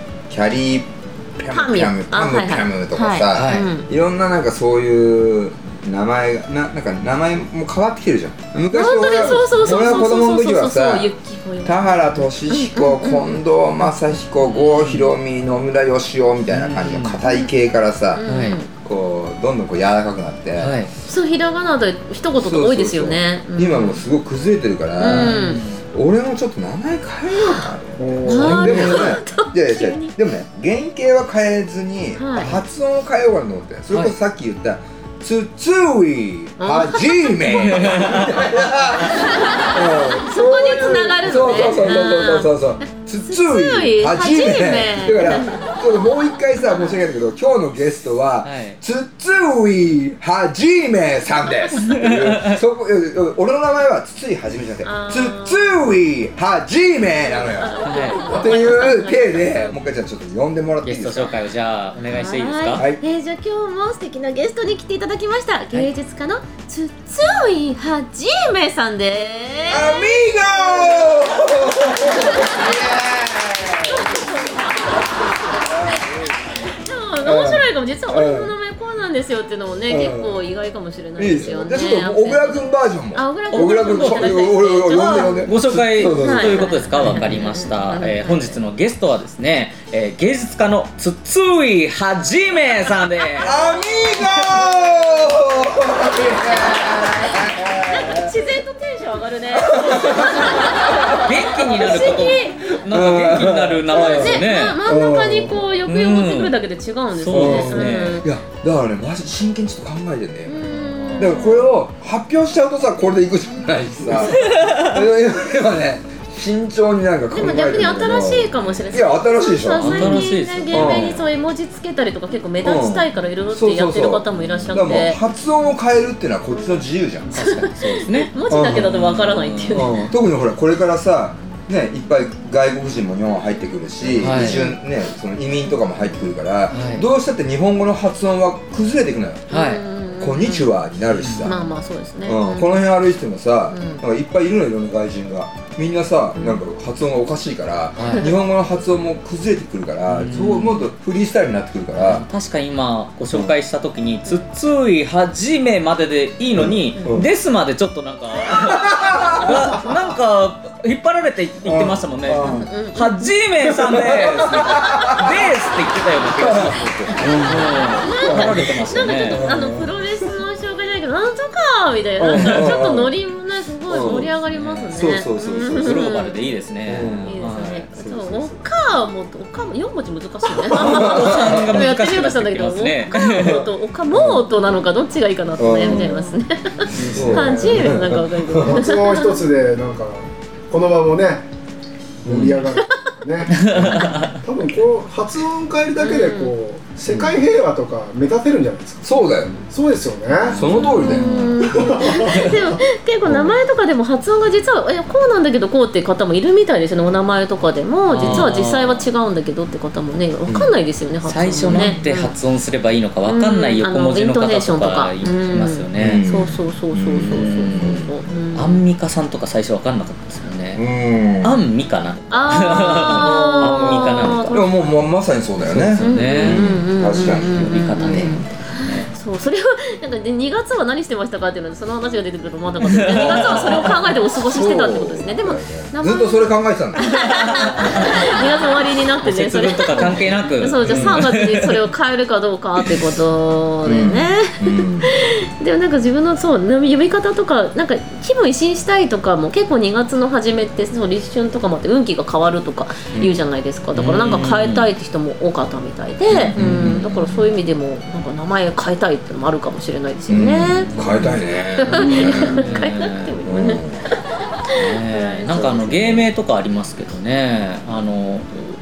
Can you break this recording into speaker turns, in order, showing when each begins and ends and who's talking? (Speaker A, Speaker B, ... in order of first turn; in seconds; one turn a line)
Speaker A: 0.3-11.1
Speaker B: 1.5-3.9
Speaker C: 3.3-3.7
Speaker B: 8.7-13.4
Speaker C: 9.2-10.0
Speaker A: 11.6-20.8
Speaker C: 14.4-15.1
Speaker C: 16.5-17.2
Speaker B: 18.1-18.7
Speaker C: 18.3-18.6
Speaker C: 20.6-20.9
Speaker B: 21.1-24.0
Speaker A: 22.4-61.4
Speaker C: 25.0-25.8
Speaker B: 25.0-25.6
Speaker B: 27.4-27.6
Speaker D: 28.0-29.0
Speaker B: 28.2-30.1
Speaker B: 32.1-32.5
Speaker B: 36.6-38.4
Speaker C: 37.7-38.3
Speaker B: 39.1-45.7
Speaker B: 46.7-47.0
Speaker C: 48.4-48.8
Speaker C: 51.8-52.6
Speaker B: 54.8-55.6
Speaker B: 57.2-59.7
Speaker C: 57.9-58.4
Speaker C: 60.8-62.8
Speaker B: 62.1-73.0
Speaker A: 69.7-74.3
Speaker B: 73.7-76.1
Speaker A: 75.5-76.3
Speaker B: 76.7-85.5
Speaker A: 77.2-78.5
Speaker A: 79.9-80.4
Speaker A: 81.2-87.2
Speaker C: 83.5-93.5
Speaker B: 86.0-88.6
Speaker B: 93.4-95.2
Speaker A: 93.4-98.3
Speaker B: 96.1-102.8
Speaker A: 99.6-102.3
Speaker C: 99.9-100.7
Speaker C: 101.2-104.8
Speaker A: 102.8-105.6
Speaker B: 103.9-108.3
Speaker C: 105.8-106.5
Speaker C: 107.1-108.2
Speaker A: 107.3-110.6
Speaker B: 110.5-111.8
Speaker C: 110.7-111.3
Speaker A: 111.2-121.1
Speaker B: 113.7-114.6
Speaker C: 114.1-115.0
Speaker B: 117.3-125.2
Speaker C: 119.8-121.2
Speaker A: 122.6-127.3
Speaker C: 124.3-125.0
Speaker B: 126.5-126.8
Speaker C: 127.3-130.0
Speaker B: 127.3-130.1
Speaker A: 128.5-128.9
Speaker A: 129.7-139.5
Speaker B: 134.2-134.8
Speaker C: 134.2-134.6
Speaker C: 136.7-137.1
Speaker B: 139.5-140.7
Speaker C: 139.5-139.8
Speaker A: 140.2-141.6
Speaker C: 141.2-141.5
Speaker B: 141.4-142.8
Speaker A: 142.2-152.2
Speaker B: 143.7-144.0
Speaker C: 148.0-148.3
Speaker C: 150.1-150.9
Speaker C: 152.0-169.5
Speaker A: 156.5-157.3
Speaker A: 158.5-159.8
Speaker A: 161.6-162.7
Speaker B: 162.5-163.3
Speaker A: 163.6-165.5
Speaker A: 166.3-169.9
Speaker B: 168.0-176.4
Speaker A: 172.2-173.1
Speaker C: 172.3-172.8
Speaker A: 173.9-174.3
Speaker C: 173.9-177.9
Speaker A: 174.9-176.2
Speaker A: 176.8-177.3
Speaker B: 177.2-189.3
Speaker A: 177.9-178.7
Speaker A: 180.7-181.8
Speaker C: 180.7-183.6
Speaker A: 183.4-184.5
Speaker A: 185.6-186.3
Speaker D: 186.9-188.0
Speaker A: 186.9-188.9
Speaker D: 188.6-191.4
Speaker D: 192.2-199.1
Speaker A: 192.2-192.7
Speaker C: 193.6-194.3
Speaker A: 193.6-194.1
Speaker B: 196.0-196.5
Speaker A: 197.1-197.3
Speaker A: 199.0-199.5
Speaker D: 199.7-200.6
Speaker C: 200.3-202.3
Speaker A: 200.4-201.7
Speaker B: 200.9-212.3
Speaker D: 201.6-202.4
Speaker A: 203.2-203.6
Speaker C: 208.1-209.1
Speaker A: 208.2-208.5
Speaker A: 210.5-210.7
Speaker C: 211.2-216.2
Speaker A: 211.4-212.0
Speaker B: 213.2-218.8
Speaker A: 216.0-218.2
Speaker C: 217.1-220.8
Speaker A: 220.7-221.6
Speaker C: 221.4-224.6
Speaker B: 222.3-224.8
Speaker A: 222.7-228.5
Speaker C: 225.6-229.1
Speaker B: 226.0-261.2
Speaker C: 232.8-234.1
Speaker A: 233.1-237.1
Speaker C: 237.0-238.7
Speaker C: 239.2-241.8
Speaker A: 240.0-240.2
Speaker A: 240.8-241.2
Speaker A: 243.8-245.3
Speaker C: 253.9-254.9
Speaker C: 256.3-257.0
Speaker A: 256.5-257.4
Speaker A: 260.3-262.9
Speaker C: 260.6-263.4
Speaker B: 261.8-266.2
Speaker A: 263.4-264.0
Speaker C: 264.7-268.6
Speaker A: 265.5-266.2